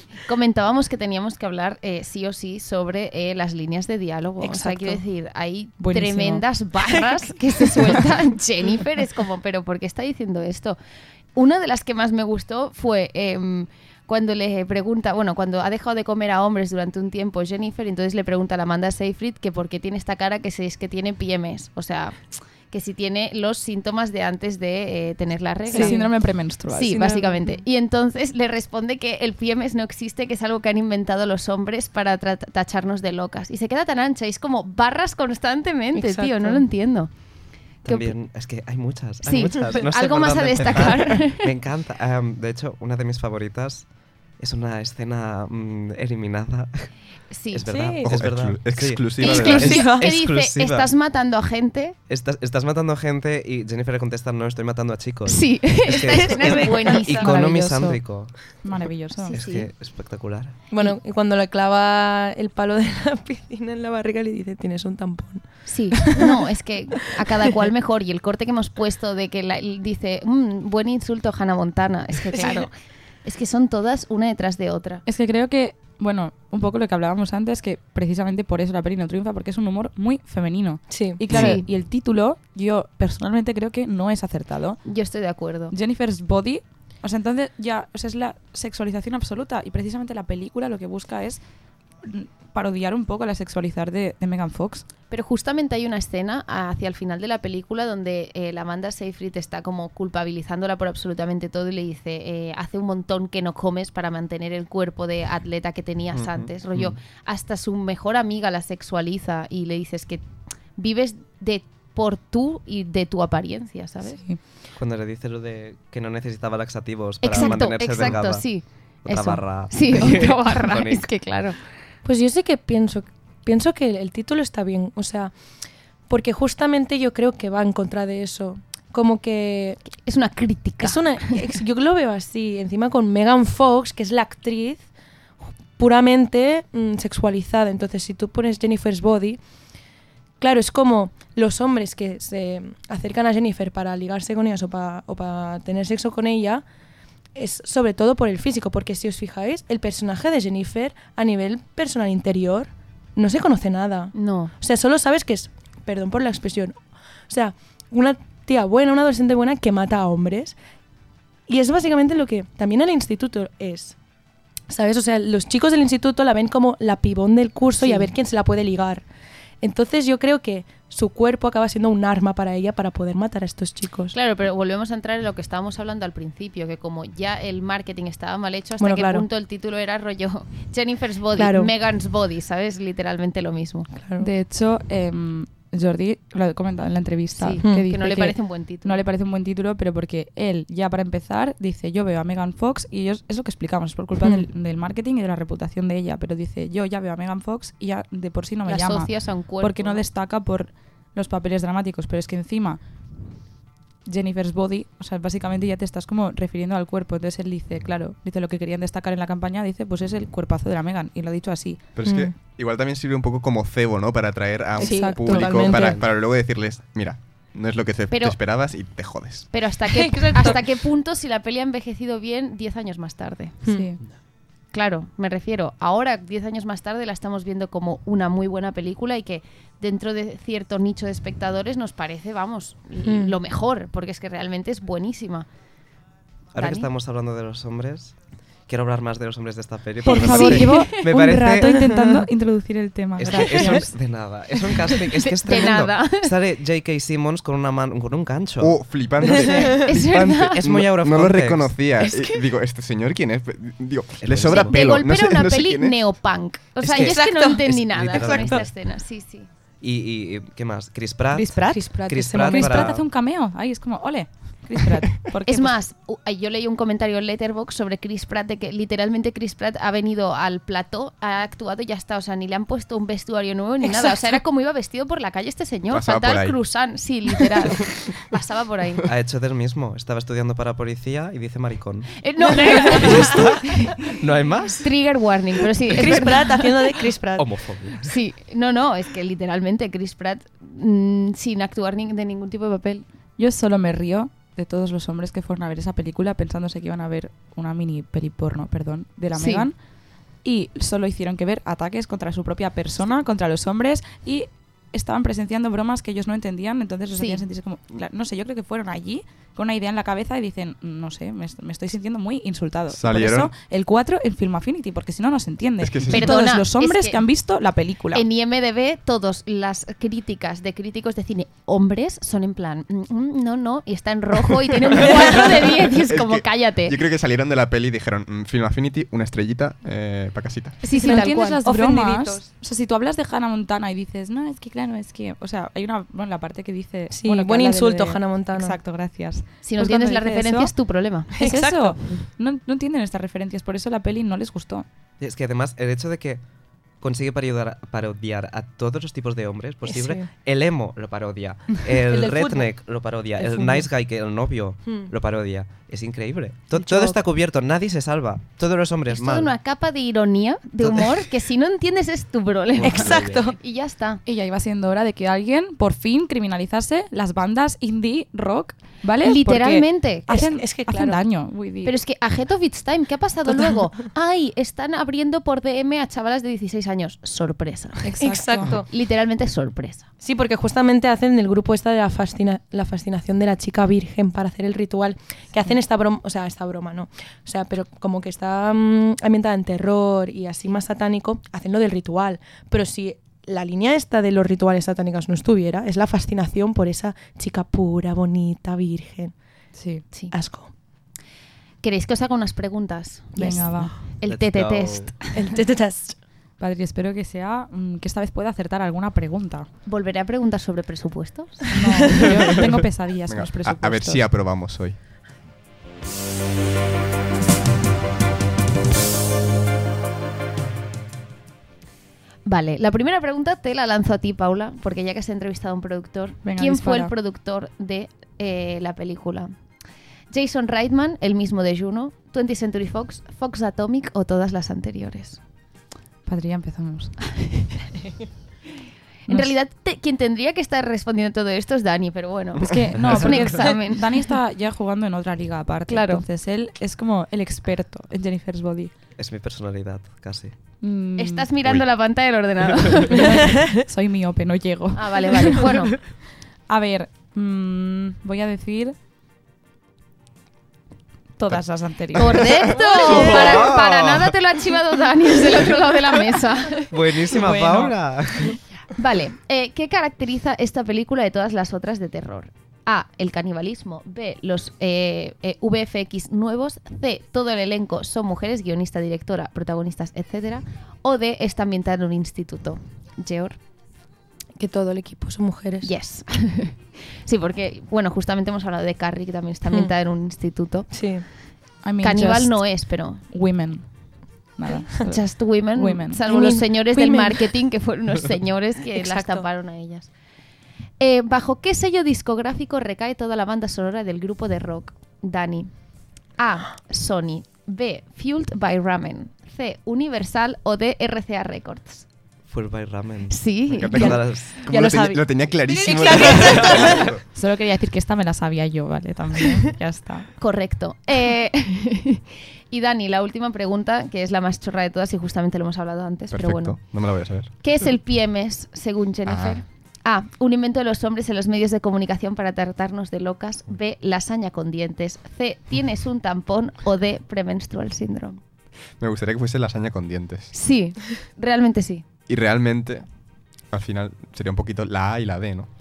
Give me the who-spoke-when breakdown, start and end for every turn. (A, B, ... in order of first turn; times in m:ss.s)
0:00.2-0:10.8 A
0:04.4-0:05.0 B
0:05.8-0:06.4 C
0:11.4-0:26.1 A
0:25.7-0:27.2 C
0:25.7-0:26.1 B
0:26.7-0:37.1 A
0:26.9-0:27.6 B
0:35.9-0:36.6 B
0:37.8-0:46.9 D
0:37.8-0:38.2 A
0:39.2-0:41.5 A
0:47.3-0:47.7 A
0:47.5-0:50.9 D
0:47.7-0:48.1 B
0:48.0-0:49.8 E
0:49.2-0:52.0 A
0:49.3-0:50.1 B
0:52.1-0:58.6 D
0:55.3-0:57.4 A
0:57.1-0:58.0 C
0:58.6-0:59.4 C
0:59.3-0:59.7 A
0:59.3-1:00.6 D
1:00.7-1:05.4 B
1:05.7-1:12.7 A
1:05.9-1:06.4 B
1:12.3-1:12.7 B
1:13.2-1:15.0 A
1:15.1-1:24.8 C
1:20.9-1:21.2 B
1:21.3-1:21.7 A
1:24.8-1:25.7 A
1:25.7-1:31.4 C
1:32.0-1:34.9 C
1:35.1-1:54.2 A
1:46.1-1:46.5 E
1:54.1-1:54.4 C
1:54.8-2:01.1 D
1:57.2-2:01.6 A
1:57.4-1:58.1 B
2:02.0-2:05.3 B
2:06.1-2:09.8 B
2:09.9-2:11.4 A
2:10.8-2:14.9 B
2:15.8-2:19.4 B
2:20.4-2:26.6 B
2:27.4-2:40.6 B
2:34.1-2:34.5 A
2:41.5-2:44.0 B
2:44.7-2:49.0 B
2:47.8-2:48.1 A
2:49.6-2:54.2 B
2:54.1-3:03.9 A
2:58.8-2:59.3 B
3:01.4-3:01.7 B
3:03.9-3:04.3 B
3:04.2-3:22.8 C
3:07.3-3:09.0 A
3:07.6-3:07.9 B
3:14.2-3:14.5 B
3:18.7-3:20.0 A
3:24.0-3:32.0 C
3:32.0-3:39.5 E
3:32.0-3:32.3 B
3:34.8-3:36.0 B
3:34.8-3:35.7 C
3:35.7-3:36.1 D
3:38.1-3:38.4 A
3:39.5-3:43.6 A
3:39.9-3:40.6 B
3:43.6-3:43.9 B
3:43.7-3:44.0 C
3:44.7-3:55.5 A
3:53.0-3:53.4 B
3:56.5-4:01.9 D
3:56.6-3:56.9 A
4:00.0-4:03.9 C
4:00.1-4:00.9 A
4:03.2-4:11.8 D
4:05.2-4:06.3 A
4:08.6-4:16.0 E
4:09.8-4:10.6 A
4:14.2-4:14.9 D
4:14.5-4:19.5 A
4:16.8-4:18.7 D
4:16.9-4:18.6 B
4:19.8-4:23.1 D
4:21.3-4:25.8 C
4:21.7-4:23.0 B
4:25.4-4:39.0 A
4:35.9-4:36.6 E
4:39.1-4:42.2 D
4:42.2-4:44.1 A
4:42.6-4:43.4 B
4:42.8-4:44.9 D
4:44.8-4:46.6 A
4:45.9-4:47.5 B
4:46.0-4:46.4 D
4:47.4-4:48.1 D
4:48.0-4:53.1 A
4:53.4-4:59.8 C
4:59.3-4:59.7 A
5:00.4-5:18.2 C
5:07.1-5:07.4 A
5:12.9-5:13.5 E
5:15.8-5:16.3 E
5:16.1-5:17.2 A
5:18.1-5:27.0 A
5:26.1-5:30.8 E
5:30.8-5:31.6 A
5:30.9-5:32.4 B
5:30.9-5:40.8 C
5:37.1-5:38.8 B
5:39.6-5:41.3 A
5:41.3-5:44.9 C
5:41.4-5:42.2 B
5:45.2-5:46.4 D
5:47.0-5:59.5 D
5:49.9-5:50.3 B
5:52.1-5:53.9 B
5:54.8-5:55.1 B
5:56.7-5:57.2 B
5:59.1-6:04.2 A
6:00.8-6:01.3 D
6:02.8-6:03.5 D
6:02.8-6:03.6 B
6:04.3-6:11.9 C
6:09.2-6:10.4 A
6:10.3-6:11.2 B
6:11.8-6:18.2 A
6:13.5-6:13.9 B
6:18.0-6:18.8 C
6:18.2-6:18.9 B
6:18.9-6:20.1 A
6:20.2-6:39.4 B
6:39.7-6:40.0 C
6:40.3-6:40.7 B
6:41.8-6:45.4 A
6:43.3-6:44.0 C
6:44.2-6:45.1 D
6:45.3-6:46.2 B
6:46.6-6:49.7 C
6:49.9-6:52.2 A
6:51.7-6:54.3 C
6:53.3-6:55.0 E
7:02.4-7:09.5 A
7:06.4-7:07.1 C
7:10.3-7:15.4 A
7:16.2-7:17.4 C
7:19.3-7:24.3 A
7:19.3-7:19.5 C
7:22.7-7:28.9 C
7:23.0-7:23.4 D
7:25.9-7:26.2 A
7:29.2-7:30.6 D
7:30.8-7:31.5 C
7:31.2-7:33.3 A
7:33.1-7:35.8 C
7:34.9-7:36.0 A
7:36.7-7:39.0 C
7:41.4-7:42.8 C
7:42.1-7:46.9 A
7:42.8-7:43.5 B
7:42.9-7:44.4 D
7:46.9-7:48.6 D
7:47.3-7:48.0 C
7:48.9-8:03.6 A
8:04.6-8:05.9 B
8:05.8-8:10.9 A
8:10.9-8:11.2 B
8:11.8-8:13.9 C
8:12.0-8:13.2 A
8:14.5-8:16.2 C
8:15.0-8:20.1 A
8:16.3-8:17.5 B
8:18.9-8:19.5 B
8:21.0-8:25.7 A
8:26.4-8:32.1 A
8:32.5-8:34.6 D
8:33.3-8:34.1 A
8:33.7-8:37.2 E
8:34.0-8:37.1 B
8:36.3-8:37.1 D
8:37.3-8:40.3 C
8:40.4-8:58.4 A
8:46.3-8:47.5 E
8:49.3-8:49.6 E
8:59.0-9:00.5 E
9:00.5-9:02.1 A
9:02.3-9:03.1 E
9:03.7-9:05.7 E